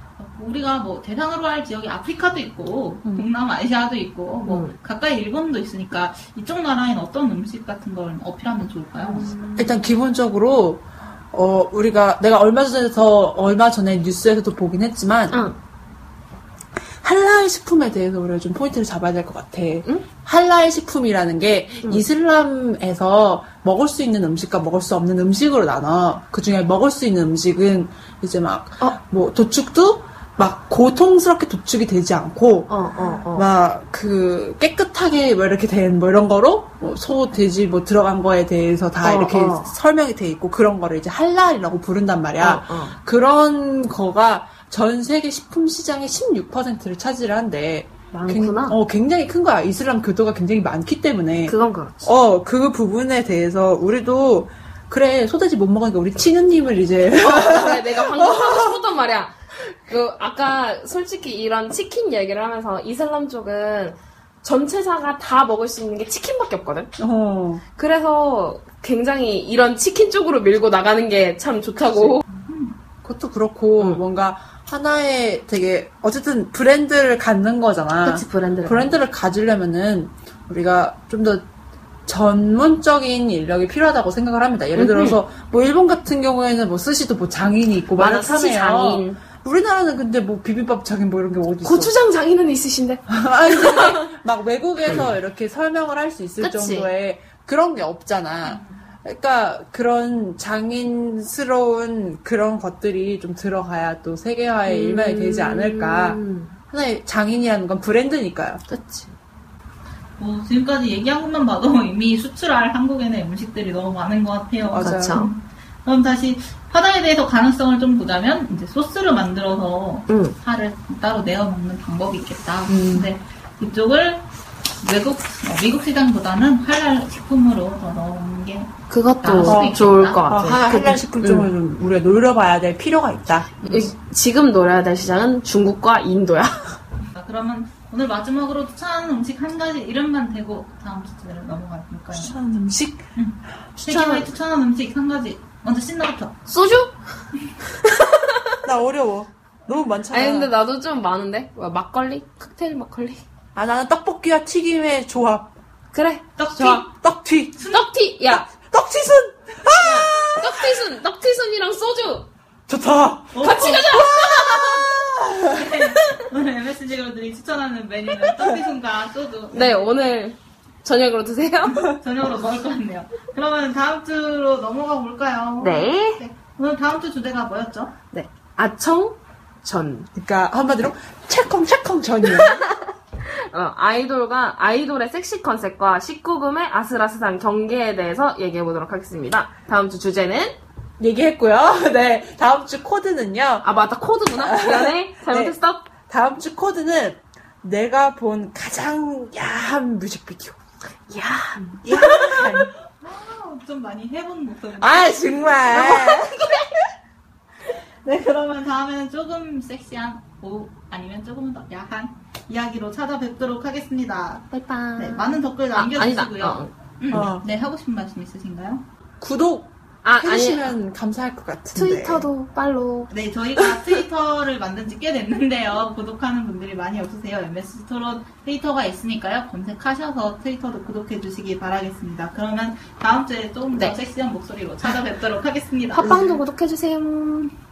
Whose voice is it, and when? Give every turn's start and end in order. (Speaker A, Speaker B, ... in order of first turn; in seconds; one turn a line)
Speaker A: 0.2-9.4
Speaker B: 4.5-4.7
Speaker B: 9.0-9.8
Speaker C: 9.6-15.4
Speaker B: 15.3-15.6
Speaker C: 17.0-32.8
Speaker B: 32.7-33.5
Speaker C: 33.3-58.8
Speaker B: 39.0-39.7
Speaker B: 42.4-43.0
Speaker B: 48.1-48.8
Speaker B: 51.5-52.1
Speaker B: 57.2-66.9
Speaker C: 67.0-67.6
Speaker B: 67.8-72.2
Speaker C: 71.8-72.2
Speaker A: 72.3-72.8
Speaker C: 73.0-81.5
Speaker B: 78.0-79.0
Speaker C: 82.1-92.0
Speaker B: 84.8-85.2
Speaker B: 88.0-89.2
Speaker B: 91.6-94.1
Speaker C: 93.1-108.6
Speaker B: 96.4-96.9
Speaker A: 98.4-98.8
Speaker B: 104.7-106.6
Speaker B: 108.7-109.2
Speaker A: 110.2-124.2
Speaker C: 114.7-115.3
Speaker B: 114.8-115.3
Speaker B: 120.1-120.3
Speaker C: 122.7-123.1
Speaker A: 124.8-128.7
Speaker B: 128.9-131.5
Speaker A: 129.2-130.2
Speaker C: 129.4-133.9
Speaker B: 133.6-136.8
Speaker A: 137.1-142.4
Speaker C: 142.1-143.1
Speaker A: 143.2-146.3
Speaker B: 143.9-144.3
Speaker B: 146.5-146.9
Speaker B: 147.7-148.6
Speaker C: 148.6-150.5
Speaker B: 150.1-153.2
Speaker C: 153.6-155.5
Speaker B: 155.9-156.8
Speaker A: 156.4-156.8
Speaker C: 156.6-157.7
Speaker A: 157.6-157.9
Speaker B: 157.7-158.5
Speaker C: 158.3-160.9
Speaker B: 159.7-162.3
Speaker C: 162.7-165.6
Speaker A: 163.3-163.9
Speaker B: 163.4-165.0
Speaker A: 165.4-169.9
Speaker B: 169.5-171.8
Speaker A: 171.6-177.9
Speaker B: 175.6-176.2
Speaker B: 178.1-180.1
Speaker C: 180.2-182.7
Speaker B: 182.3-182.7
Speaker B: 183.3-190.6
Speaker C: 191.0-193.7
Speaker B: 193.6-195.9
Speaker C: 194.4-195.6
Speaker C: 196.1-200.6
Speaker B: 201.1-202.5
Speaker C: 201.8-202.7
Speaker A: 201.8-205.8
Speaker C: 204.8-206.6
Speaker B: 205.7-206.7
Speaker A: 208.1-218.8
Speaker B: 214.5-216.7
Speaker C: 217.1-217.4
Speaker C: 219.2-222.3
Speaker B: 220.0-220.8
Speaker B: 221.7-223.7
Speaker A: 223.1-236.4
Speaker B: 235.9-237.5